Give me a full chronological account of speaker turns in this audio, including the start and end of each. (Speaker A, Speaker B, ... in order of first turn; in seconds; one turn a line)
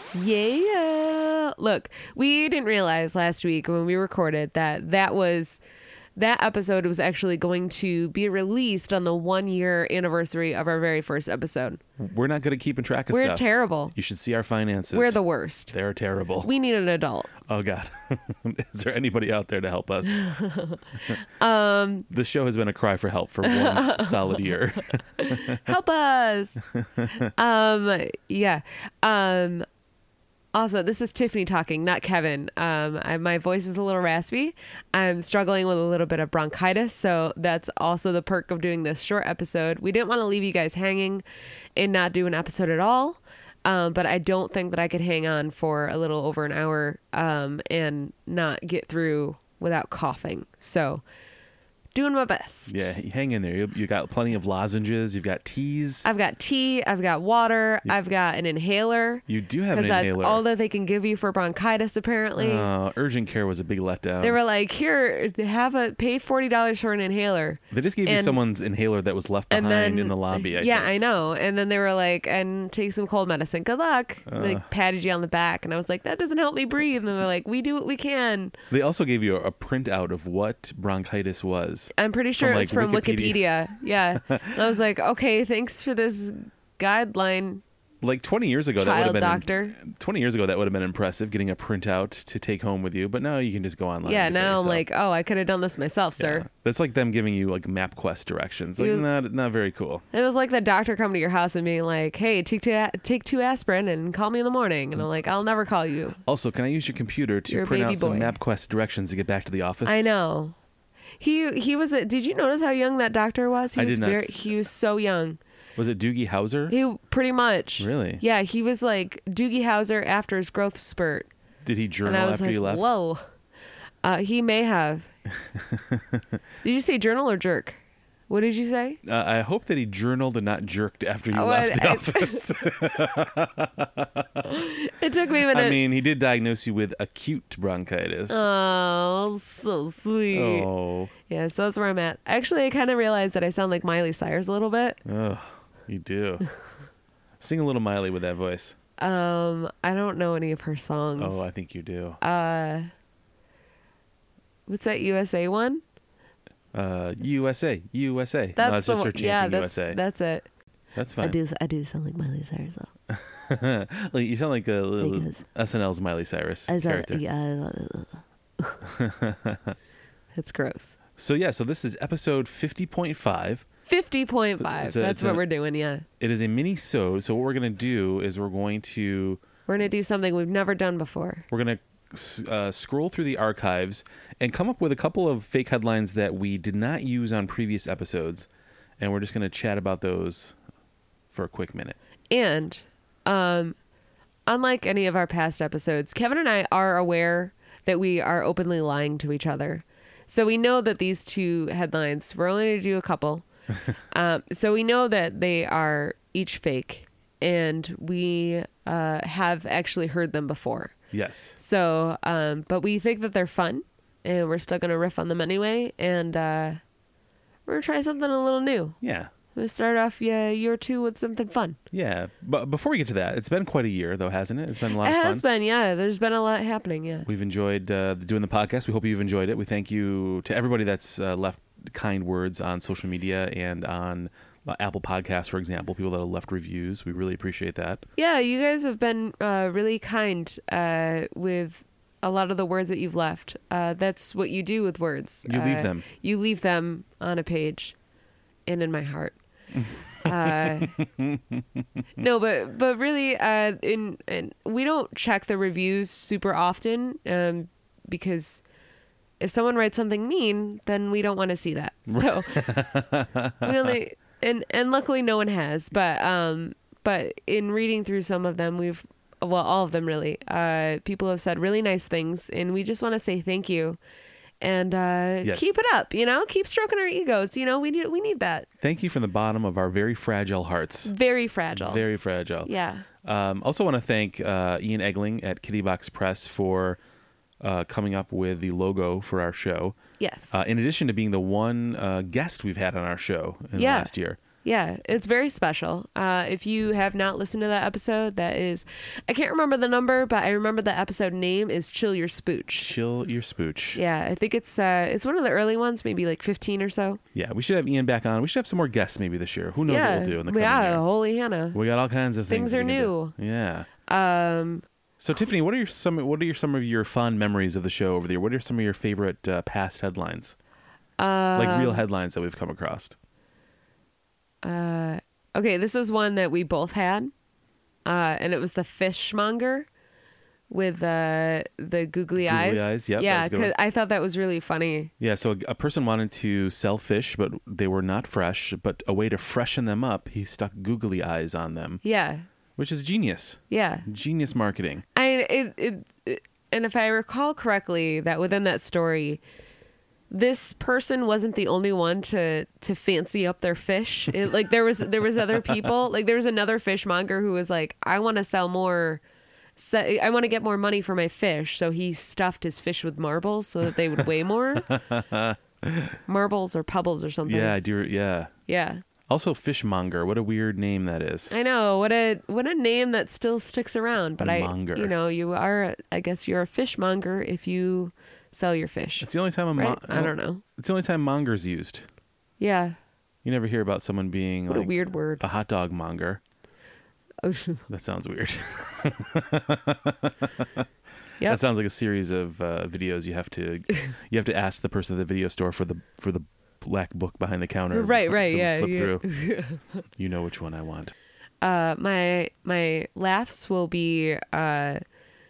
Speaker A: 0.1-5.6
Speaker A: 6.2-11.8
Speaker B: 12.0-15.2
Speaker A: 13.1-13.9
Speaker A: 14.9-15.8
Speaker B: 15.7-16.5
Speaker A: 16.4-17.3
Speaker B: 17.4-20.2
Speaker A: 20.1-22.1
Speaker B: 22.1-25.7
Speaker A: 23.4-24.5
Speaker A: 25.2-26.6
Speaker B: 26.8-27.3
Speaker A: 27.2-29.7
Speaker A: 30.5-41.2
Speaker A: 41.8-51.0
Speaker A: 51.9-53.0
Speaker B: 52.7-56.1
Speaker A: 56.0-62.7
Speaker B: 59.3-60.4
Speaker B: 62.4-64.4
Speaker A: 64.2-68.4
Speaker B: 67.7-71.0
Speaker A: 69.5-78.6
Speaker B: 74.3-74.7
Speaker B: 78.7-83.5
Speaker A: 82.0-87.6
Speaker B: 84.2-84.6
Speaker B: 88.0-94.8
Speaker A: 88.8-89.8
Speaker A: 94.0-96.5
Speaker B: 96.2-100.0
Speaker A: 98.8-99.1
Speaker A: 100.1-106.2
Speaker B: 106.2-110.1
Speaker A: 107.5-108.3
Speaker A: 109.8-110.6
Speaker A: 111.2-115.4
Speaker B: 113.7-114.5
Speaker B: 115.8-116.8
Speaker A: 116.7-121.3
Speaker B: 117.8-118.2
Speaker B: 121.7-122.9
Speaker A: 122.0-123.2
Speaker A: 124.0-125.1
Speaker B: 125.5-126.4
Speaker A: 126.6-127.8
Speaker A: 128.3-129.0
Speaker B: 129.0-134.6
Speaker A: 131.3-132.5
Speaker A: 134.5-135.8
Speaker B: 135.5-138.4
Speaker A: 138.3-140.7
Speaker B: 140.3-141.1
Speaker A: 141.3-145.0
Speaker B: 145.1-146.5
Speaker B: 147.4-148.8
Speaker A: 149.0-151.5
Speaker B: 151.2-152.2
Speaker A: 152.2-152.9
Speaker A: 154.7-155.8
Speaker B: 156.7-160.0
Speaker A: 158.6-160.5
Speaker B: 160.9-161.4
Speaker A: 161.2-162.9
Speaker B: 163.1-167.2
Speaker A: 165.0-165.4
Speaker A: 166.7-168.8
Speaker B: 168.8-169.8
Speaker A: 170.4-171.0
Speaker B: 171.2-173.7
Speaker A: 173.9-176.1
Speaker B: 174.6-175.4
Speaker B: 176.2-179.4
Speaker A: 179.7-181.4
Speaker B: 181.5-188.5
Speaker B: 189.0-190.6
Speaker B: 191.3-192.0
Speaker A: 192.3-193.8
Speaker A: 194.5-203.4
Speaker A: 204.1-211.0
Speaker B: 211.1-211.6
Speaker A: 211.6-216.8
Speaker A: 217.7-219.0
Speaker B: 219.0-219.3
Speaker A: 219.5-221.8
Speaker B: 221.9-225.4
Speaker A: 224.9-227.3
Speaker B: 227.3-238.0
Speaker A: 238.2-247.9
Speaker B: 245.5-246.0
Speaker A: 248.7-249.4
Speaker B: 249.8-252.0
Speaker A: 250.2-251.0
Speaker A: 252.2-258.6
Speaker A: 259.4-262.9
Speaker B: 262.1-264.0
Speaker A: 263.6-274.0
Speaker A: 274.6-278.7
Speaker B: 275.4-275.7
Speaker B: 278.8-281.1
Speaker A: 281.1-282.0
Speaker B: 281.7-282.7
Speaker A: 282.6-283.1
Speaker B: 283.2-287.0
Speaker B: 287.6-290.0
Speaker A: 290.2-290.6
Speaker B: 290.5-294.4
Speaker A: 293.8-294.1
Speaker A: 294.6-302.9
Speaker B: 302.8-304.0
Speaker A: 303.9-307.2
Speaker B: 307.4-311.0
Speaker A: 309.9-311.8
Speaker B: 311.7-313.9
Speaker A: 312.5-313.4
Speaker A: 314.1-314.9
Speaker B: 315.2-320.6
Speaker A: 321.2-322.0
Speaker B: 321.6-323.2
Speaker A: 324.6-327.3
Speaker A: 328.1-329.9
Speaker A: 330.7-335.1
Speaker B: 332.4-333.7
Speaker B: 335.2-342.0
Speaker A: 342.0-342.5
Speaker B: 342.8-345.0
Speaker A: 343.7-344.1
Speaker A: 345.1-349.4
Speaker A: 350.3-359.2
Speaker A: 359.8-364.9
Speaker B: 364.9-366.2
Speaker A: 366.3-367.8
Speaker B: 367.5-368.5
Speaker A: 368.7-369.0
Speaker B: 369.3-371.5
Speaker A: 371.5-380.6
Speaker B: 374.4-375.1
Speaker B: 379.2-382.1
Speaker A: 382.6-383.0
Speaker B: 383.4-386.4
Speaker A: 384.7-385.4
Speaker A: 387.4-387.9
Speaker B: 387.9-390.9
Speaker B: 391.5-399.2
Speaker A: 397.9-399.9
Speaker B: 400.2-401.1
Speaker A: 401.6-405.0